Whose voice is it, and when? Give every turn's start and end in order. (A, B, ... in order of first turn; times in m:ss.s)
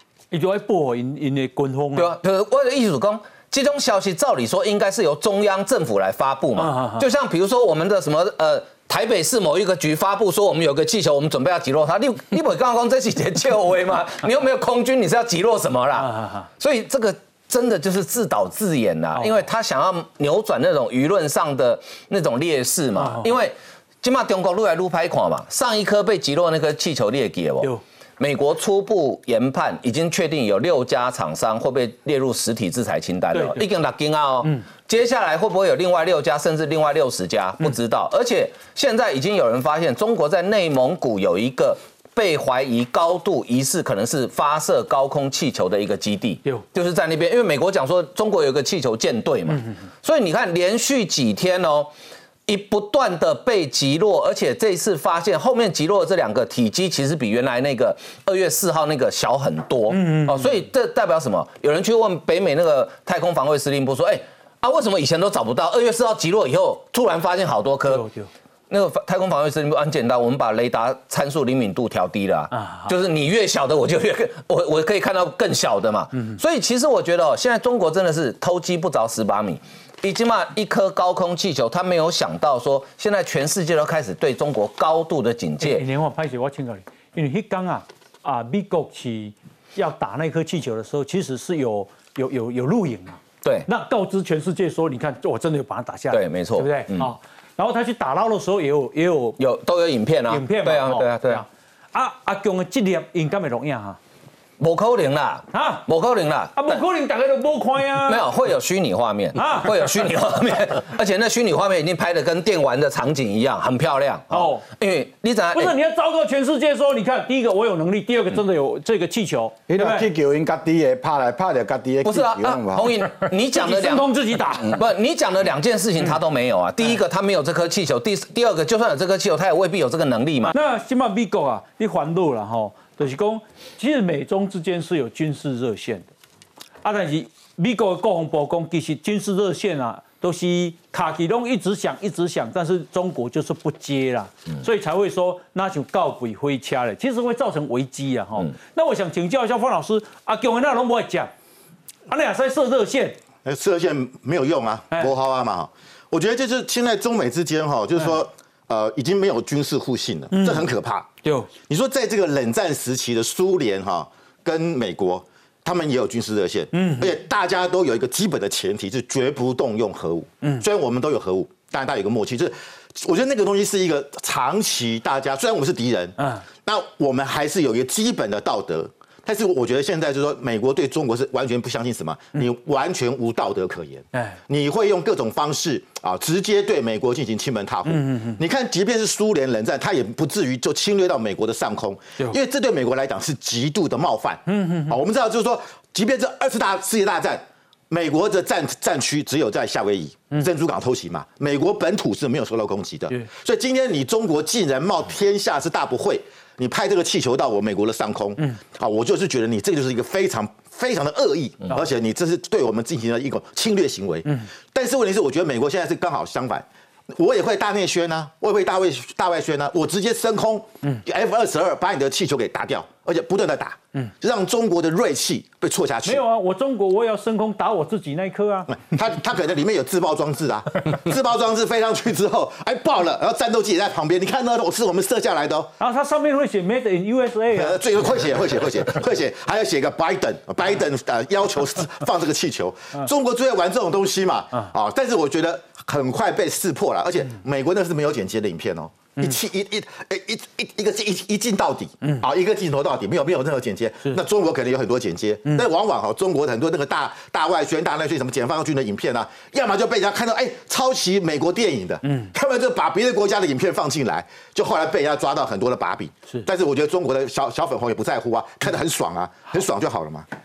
0:00.3-0:02.1 A
0:02.0-0:51.9 B
0:06.6-0:07.0 A
0:16.0-0:16.5 A
0:19.2-0:19.4 A
0:23.0-0:23.3 A
0:33.3-0:33.7 A
0:52.5-1:08.0 B
0:59.9-1:00.6 A
1:07.9-1:08.3 A
1:08.7-1:25.8 B
1:12.5-1:12.9 A
1:25.6-1:39.4 A
1:36.1-1:37.1 B
1:39.4-1:41.4 B
1:40.3-1:44.0 A
1:44.6-1:46.8 B
1:45.5-1:45.8 A
1:46.6-1:48.2 A
1:48.1-1:55.7 B
1:49.4-1:50.1 A
1:54.3-1:54.6 A
1:55.5-2:00.1 A
1:59.7-2:03.0 C
2:02.0-2:10.5 B
2:03.5-2:04.8 A
2:10.5-2:16.1 A
2:16.8-2:31.3 A
2:32.1-2:33.2 A
2:33.4-2:41.1 D
2:40.3-2:40.7 A
2:41.2-2:41.5 A
2:41.7-3:46.2 D
2:46.7-2:47.1 A
2:56.2-2:56.4 A
3:07.9-3:08.4 A
3:14.5-3:15.0 A
3:46.0-3:48.7 A
3:48.7-3:55.7 D
3:55.8-3:57.8 A
3:57.5-4:30.3 D
4:22.0-4:22.3 A